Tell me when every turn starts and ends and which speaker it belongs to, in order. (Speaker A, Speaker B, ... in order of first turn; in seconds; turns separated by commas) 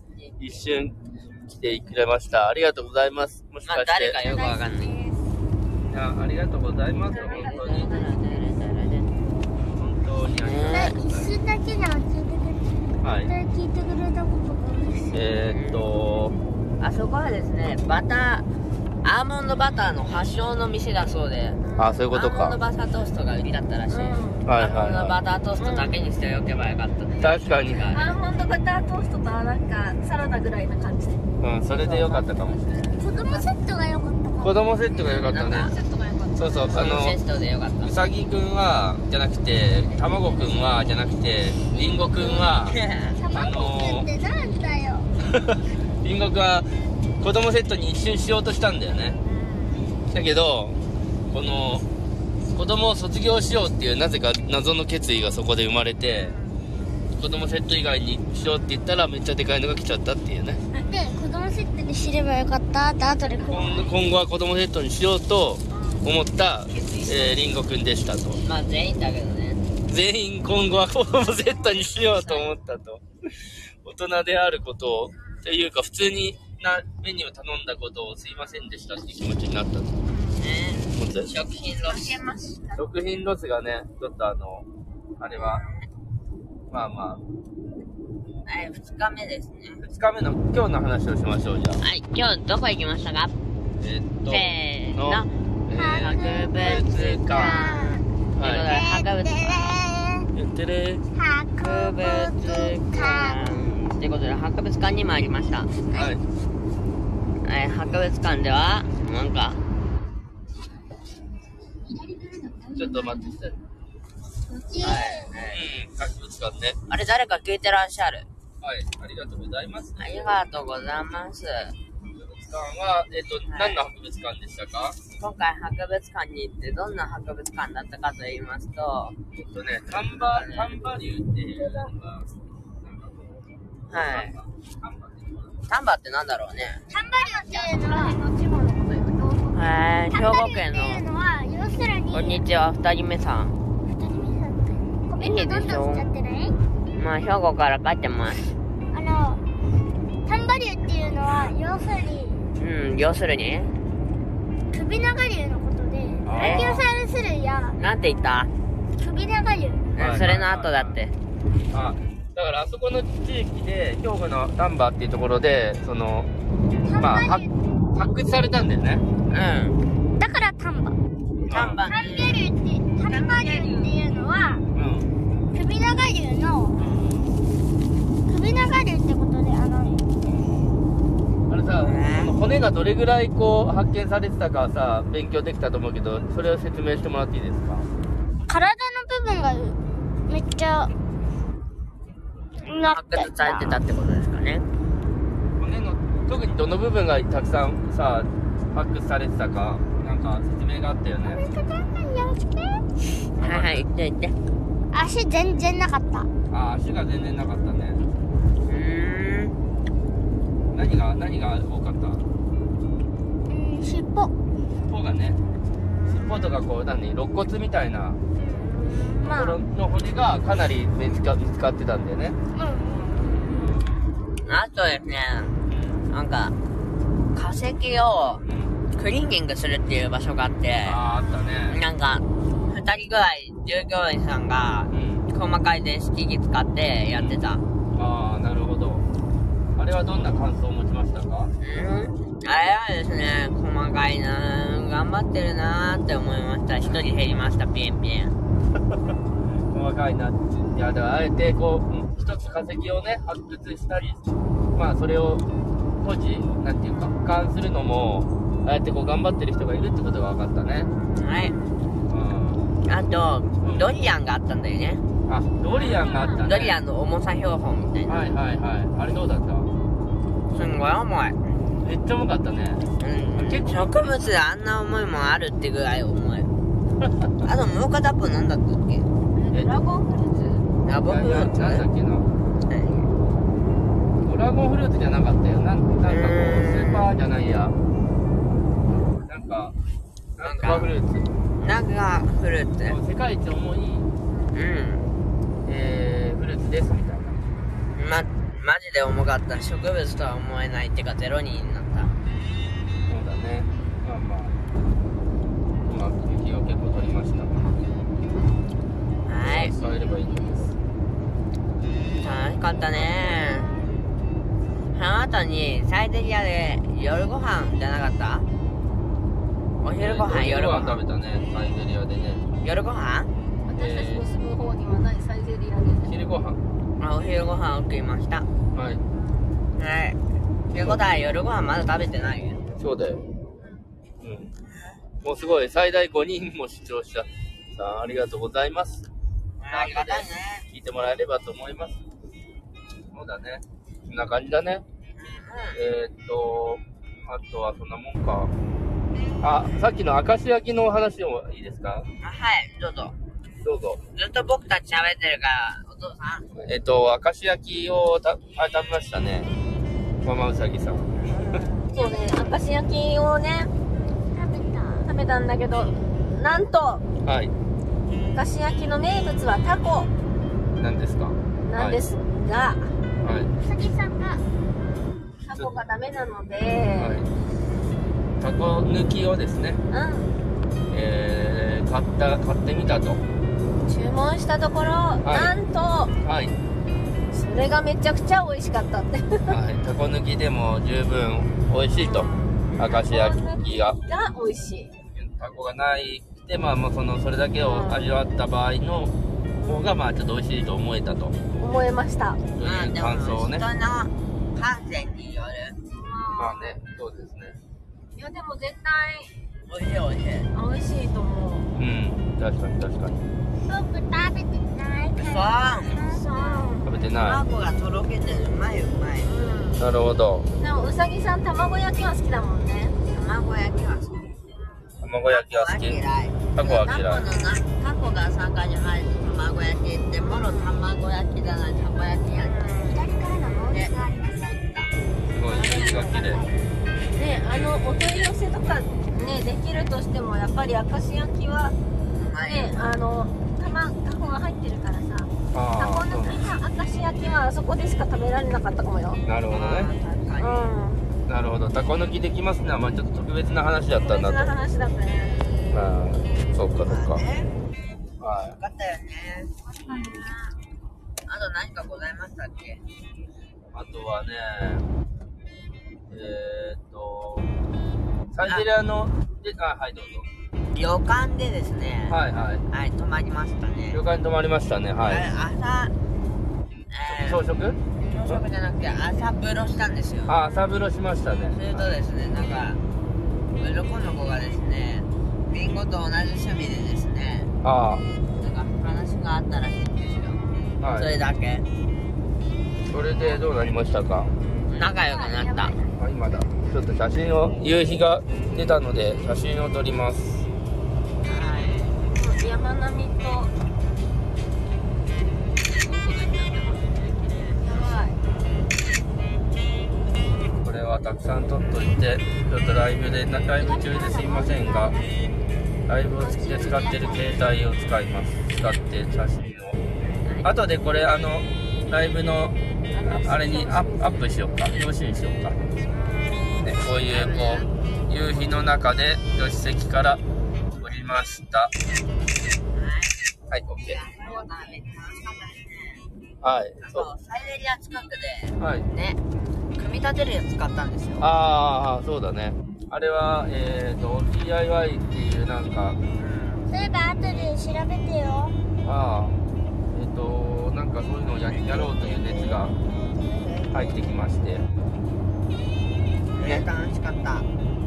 Speaker A: 0.4-4.2, Speaker B: 3.7-4.9, Speaker C: 4.2-5.2, Speaker A: 5.9-8.0, Speaker B: 7.2-9.1, Speaker C: 7.8-8.1, Speaker A: 9.6-11.4, Speaker B: 10.4-10.9, Speaker C: 10.7-15.2, Speaker A: 13.0-13.3, Speaker A: 15.1-16.4, Speaker B: 15.5-15.8, Speaker B: 16.8-18.4, Speaker B: 19.0-21.6, Speaker D: 21.6-22.2, Speaker A: 21.8-22.6, Speaker B: 22.1-28.1, Speaker D: 23.9-24.4, Speaker A: 24.4-25.2, Speaker D: 25.6-25.9, Speaker A: 27.2-27.9, Speaker D: 27.9-31.2, Speaker A: 31.4-33.0, Speaker D: 31.8-32.3, Speaker C: 33.0-34.6, Speaker D: 33.1-33.4, Speaker A: 34.4-35.8, Speaker B: 35.1-35.7, Speaker D: 35.3-36.9, Speaker A: 36.4-37.2, Speaker B: 36.7-38.0, Speaker A: 37.8-42.8, Speaker D: 41.7-42.6, Speaker B: 42.6-43.1, Speaker C: 43.2-45.1, Speaker A: 43.3-44.1, Speaker A: 45.2-49.2, Speaker D: 49.2-49.9, Speaker A: 50.1-50.8, Speaker A: 51.3-51.9, Speaker A: 52.5-56.3, Speaker D: 56.1-56.6, Speaker A: 57.2-60.6, Speaker C: 60.9-63.9, Speaker D: 63.1-63.9, Speaker A: 63.5-68.4, Speaker D: 65.7-66.1, Speaker D: 66.7-67.4, Speaker B: 68.4-69.6, Speaker A: 69.9-79.9, Speaker D: 71.9-72.5, Speaker B: 80.4-82.6, Speaker A: 81.0-81.3, Speaker A: 82.8-84.7, Speaker A: 85.2-85.6, Speaker B: 85.3-85.9, Speaker A: 86.7-87.2, Speaker B: 88.5-89.8, Speaker A: 89.8-91.8, Speaker B: 91.8-93.3, Speaker A: 93.8-97.7, Speaker B: 94.2-95.3, Speaker C: 95.7-96.5, Speaker B: 95.9-99.8, Speaker C: 97.3-98.0, Speaker A: 98.4-98.7, Speaker C: 98.7-100.3, Speaker A: 100.3-101.0, Speaker C: 101.1-103.7, Speaker B: 101.5-105.7, Speaker A: 105.9-106.2, Speaker B: 107.4-109.6, Speaker C: 112.0-112.9, Speaker A: 112.7-113.6, Speaker C: 114.5-115.3, Speaker B: 114.8-115.7, Speaker A: 115.5-116.8, Speaker B: 116.9-118.3, Speaker A: 118.6-120.4, Speaker B: 120.0-121.8, Speaker A: 122.1-125.0, Speaker B: 123.5-123.8, Speaker B: 125.2-129.1, Speaker A: 129.3-135.6, Speaker B: 130.2-130.8, Speaker B: 133.9-134.3, Speaker B: 135.7-136.8, Speaker C: 136.9-138.2, Speaker D: 137.1-139.8, Speaker B: 139.5-141.0, Speaker C: 140.1-142.4, Speaker B: 142.1-143.6, Speaker C: 143.9-146.6, Speaker B: 145.2-146.1, Speaker B: 146.9-148.5, Speaker C: 148.9-149.4, Speaker C: 150.2-152.5, Speaker B: 152.6-153.8, Speaker C: 154.7-157.8, Speaker A: 156.2-156.8, Speaker B: 156.3-156.8, Speaker B: 157.8-158.5, Speaker C: 159.0-159.9, Speaker B: 160.0-161.2, Speaker A: 160.0-160.9, Speaker A: 161.7-166.3, Speaker C: 166.8-167.5, Speaker A: 167.0-169.1, Speaker B: 169.3-169.8, Speaker C: 170.1-171.0, Speaker B: 171.4-172.5, Speaker A: 171.5-171.8, Speaker C: 171.9-174.6, Speaker B: 173.0-173.9, Speaker A: 174.8-175.1, Speaker C: 175.5-176.8, Speaker B: 176.8-177.1, Speaker C: 178.3-180.0, Speaker A: 181.5-187.9, Speaker B: 181.8-182.3, Speaker C: 188.5-190.9, Speaker C: 192.6-193.8, Speaker B: 192.8-194.7, Speaker A: 195.6-201.4, Speaker C: 201.2-202.8, Speaker A: 203.4-203.9, Speaker B: 203.4-204.3, Speaker C: 204.9-206.3, Speaker A: 206.5-208.0, Speaker B: 208.6-209.6, Speaker A: 210.7-212.2, Speaker C: 213.5-214.3, Speaker A: 214.9-215.4, Speaker A: 216.1-218.2, Speaker C: 218.3-219.6, Speaker D: 218.6-219.2, Speaker A: 219.2-222.4, Speaker C: 222.5-223.4, Speaker A: 223.5-223.8, Speaker B: 224.4-225.5, Speaker A: 225.7-226.1, Speaker B: 226.1-226.5, Speaker B: 227.3-228.4, Speaker A: 228.5-228.8, Speaker B: 229.0-231.0, Speaker A: 230.8-231.8, Speaker B: 231.7-237.6, Speaker A: 234.9-235.3, Speaker A: 237.1-237.4, Speaker A: 237.9-239.1, Speaker A: 239.8-241.5, Speaker B: 241.6-248.3, Speaker A: 249.7-254.2, Speaker A: 254.8-255.4, Speaker A: 256.0-260.9, Speaker D: 261.1-261.7, Speaker B: 261.2-261.5, Speaker A: 262.1-262.7, Speaker B: 262.9-265.0, Speaker A: 263.6-263.9, Speaker A: 265.2-266.8, Speaker D: 265.7-266.5, Speaker B: 266.4-268.3, Speaker A: 268.1-269.7, Speaker B: 270.5-271.4, Speaker A: 271.8-274.3, Speaker B: 273.0-276.5, Speaker B: 277.4-279.1, Speaker D: 279.4-280.7, Speaker A: 279.5-279.8, Speaker B: 280.9-281.9, Speaker A: 281.1-282.3, Speaker B: 282.7-283.1, Speaker A: 284.2-287.8, Speaker B: 286.0-287.1, Speaker A: 288.9-289.8, Speaker A: 290.4-291.3, Speaker B: 290.4-290.9, Speaker B: 291.6-293.0, Speaker A: 292.9-294.1, Speaker B: 294.5-295.1, Speaker A: 295.6-297.4, Speaker B: 297.9-302.1, Speaker A: 303.1-304.6, Speaker A: 305.9-307.7, Speaker B: 309.2-309.8, Speaker A: 309.4-310.7, Speaker B: 312.2-313.7, Speaker B: 314.9-318.5, Speaker B: 319.8-321.0, Speaker A: 320.0-322.5, Speaker B: 322.6-323.3, Speaker D: 323.6-326.1, Speaker A: 323.8-324.2, Speaker A: 326.0-326.6, Speaker B: 327.0-328.5, Speaker A: 328.7-329.0, Speaker D: 329.1-329.4, Speaker B: 329.8-330.2, Speaker B: 330.7-332.6, Speaker A: 330.7-331.0, Speaker A: 332.8-333.2, Speaker D: 333.6-333.8, Speaker A: 334.2-334.5, Speaker B: 334.7-335.0, Speaker A: 335.2-339.0, Speaker B: 339.6-340.6, Speaker A: 339.7-342.0, Speaker A: 343.1-344.9, Speaker B: 345.1-345.8, Speaker A: 345.8-348.5, Speaker A: 349.4-352.1, Speaker B: 352.2-353.1, Speaker A: 353.6-354.0, Speaker B: 354.1-356.5, Speaker A: 356.5-359.5, Speaker A: 360.2-361.6, Speaker D: 361.3-363.7, Speaker C: 361.9-362.5, Speaker C: 364.3-365.1, Speaker D: 365.1-367.0, Speaker A: 367.2-367.5, Speaker D: 368.3-370.1, Speaker A: 370.8-372.0, Speaker D: 371.6-372.9, Speaker A: 373.2-373.5, Speaker C: 373.6-374.4, Speaker D: 375.4-377.2, Speaker A: 376.9-377.3, Speaker A: 378.4-379.8, Speaker D: 379.9-380.3, Speaker A: 380.9-383.2, Speaker D: 383.9-386.1, Speaker A: 385.2-385.5, Speaker A: 386.2-386.5, Speaker D: 387.3-389.6, Speaker A: 389.5-394.0, Speaker D: 391.9-394.9, Speaker A: 395.1-401.4, Speaker D: 397.6-398.2, Speaker D: 401.6-402.4, Speaker A: 402.6-403.6, Speaker B: 402.6-405.8, Speaker D: 405.9-406.8, Speaker A: 406.4-407.6, Speaker D: 408.1-409.3, Speaker B: 409.7-410.5, Speaker D: 410.5-411.7, Speaker A: 411.8-413.2, Speaker C: 413.6-416.8, Speaker B: 415.1-416.1, Speaker D: 415.9-417.1, Speaker A: 416.9-417.4, Speaker B: 417.2-419.3, Speaker D: 419.2-419.8, Speaker A: 419.8-420.5, Speaker D: 420.6-422.9, Speaker B: 423.1-424.3, Speaker D: 424.5-424.9, Speaker A: 425.0-426.0, Speaker B: 425.3-433.0, Speaker A: 426.5-427.2, Speaker D: 430.2-430.7, Speaker D: 432.4-433.0, Speaker C: 432.8-434.8, Speaker B: 433.6-433.9, Speaker A: 435.3-436.4, Speaker C: 435.5-436.5, Speaker D: 437.1-441.8, Speaker B: 442.1-442.7, Speaker D: 442.4-449.2, Speaker A: 445.5-446.5, Speaker A: 449.2-449.9, Speaker B: 449.5-450.7, Speaker D: 450.4-451.1, Speaker A: 451.3-454.5, Speaker D: 454.0-455.6, Speaker A: 455.7-457.2, Speaker B: 456.8-457.5, Speaker A: 458.2-458.6, Speaker B: 458.6-459.5, Speaker D: 459.7-460.5, Speaker B: 461.3-462.8, Speaker A: 463.7-464.9, Speaker A: 466.1-467.5, Speaker A: 468.3-470.3, Speaker B: 470.7-472.2, Speaker A: 472.1-472.6, Speaker B: 472.7-474.0, Speaker A: 473.9-475.3, Speaker B: 475.1-475.9, Speaker B: 476.9-477.4, Speaker A: 477.0-478.4, Speaker B: 478.1-480.3, Speaker A: 480.3-481.9, Speaker B: 481.5-482.8, Speaker B: 483.6-487.5, Speaker A: 487.6-488.1, Speaker B: 488.4-491.6, Speaker A: 490.8-491.1, Speaker A: 492.9-494.3, Speaker B: 494.7-495.8, Speaker D: 495.0-495.9, Speaker A: 496.0-500.5, Speaker B: 501.3-501.9, Speaker D: 501.5-503.5, Speaker B: 505.7-507.7, Speaker D: 507.6-508.2, Speaker A: 510.6-515.0, Speaker D: 513.6-515.1, Speaker A: 515.9-519.8, Speaker D: 516.1-517.2, Speaker B: 520.2-520.5, Speaker A: 520.4-525.6, Speaker D: 522.9-524.2, Speaker B: 526.0-527.7, Speaker A: 526.6-530.2, Speaker A: 530.8-531.7, Speaker B: 532.8-533.2, Speaker A: 533.5-534.0, Speaker B: 533.9-536.0, Speaker A: 536.4-537.1, Speaker B: 536.8-539.2, Speaker A: 538.6-538.9, Speaker B: 539.8-541.3, Speaker A: 541.2-546.0, Speaker B: 546.1-546.6, Speaker C: 546.7-548.5, Speaker A: 548.9-549.4, Speaker A: 549.9-552.8, Speaker B: 551.7-552.7, Speaker B: 553.2-553.8, Speaker A: 553.7-554.6, Speaker B: 556.3-557.5, Speaker A: 556.4-556.6